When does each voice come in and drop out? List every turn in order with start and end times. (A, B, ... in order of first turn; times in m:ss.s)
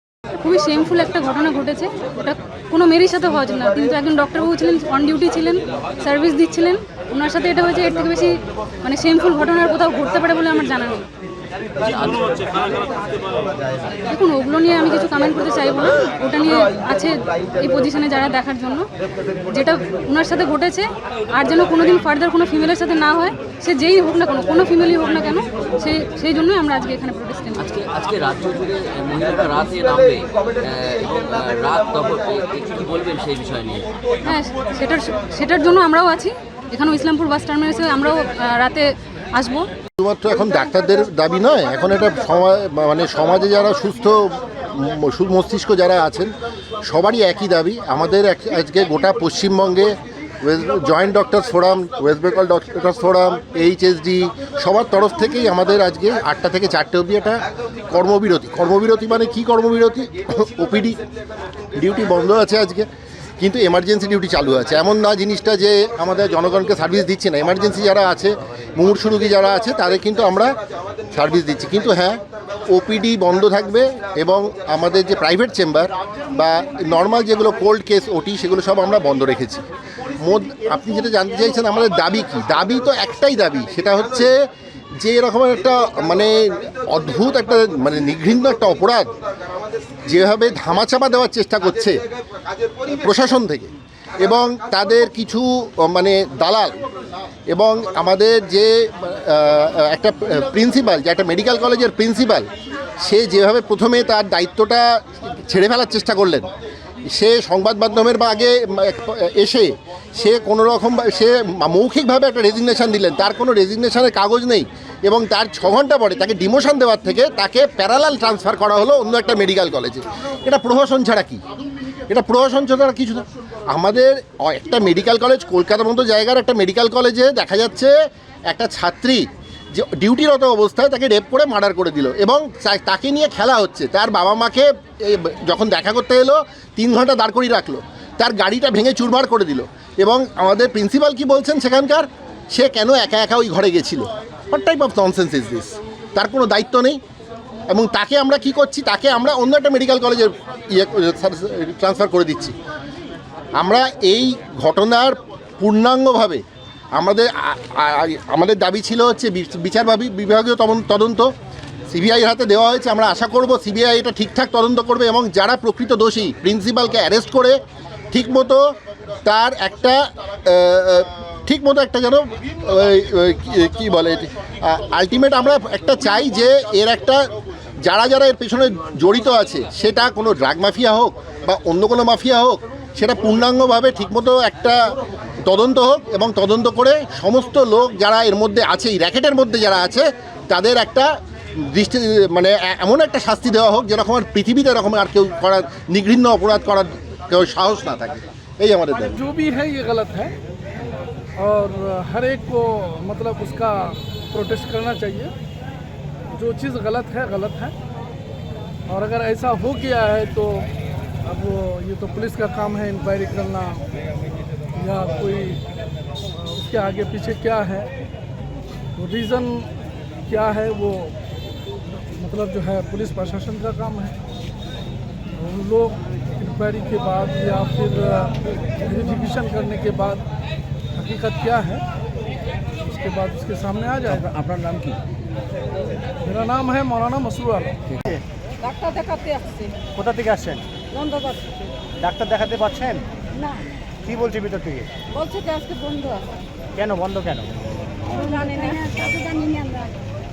0:00.4-0:11.1 A
0:11.8-0:12.8 B
0:14.1-0:18.9 A
0:19.5-0:27.7 A
0:27.6-0:33.9 B
0:34.3-0:39.7 A
0:40.0-0:46.3 C
0:46.8-1:01.0 C
1:01.8-1:02.9 C
1:03.4-1:10.5 C
1:11.1-1:12.2 C
1:12.7-1:19.6 C
1:20.2-1:24.3 C
1:25.0-1:29.1 C
1:30.1-1:32.0 C
1:32.9-1:36.8 C
1:37.5-1:42.5 C
1:43.0-1:44.8 C
1:45.4-1:46.5 C
1:47.1-2:01.4 C
2:02.1-2:07.9 C
2:08.5-2:27.0 C
2:27.7-2:32.5 C
2:33.6-2:36.4 C
2:37.0-2:41.3 C
2:41.9-2:47.6 C
2:48.1-2:48.6 C
2:49.2-2:57.2 C
2:57.8-3:04.8 C
3:05.4-3:19.2 C
3:19.1-3:20.3 D
3:21.4-3:25.3 D
3:26.3-3:27.7 D
3:28.9-3:30.7 D
3:31.2-3:33.9 D
3:34.7-3:35.6 D
3:36.3-3:37.9 D
3:39.0-3:39.7 D
3:40.3-3:41.1 D
3:42.0-3:44.2 D
3:45.4-3:50.2 D
3:50.9-3:51.8 D
3:52.8-3:54.4 D
3:54.4-3:54.9 B
3:56.2-3:57.8 D
3:58.6-3:59.8 E
4:00.0-4:00.6 F
4:01.0-4:01.4 E
4:02.0-4:03.0 F
4:04.0-4:04.9 F
4:05.2-4:06.3 E
4:06.8-4:07.5 F
4:08.1-4:09.9 E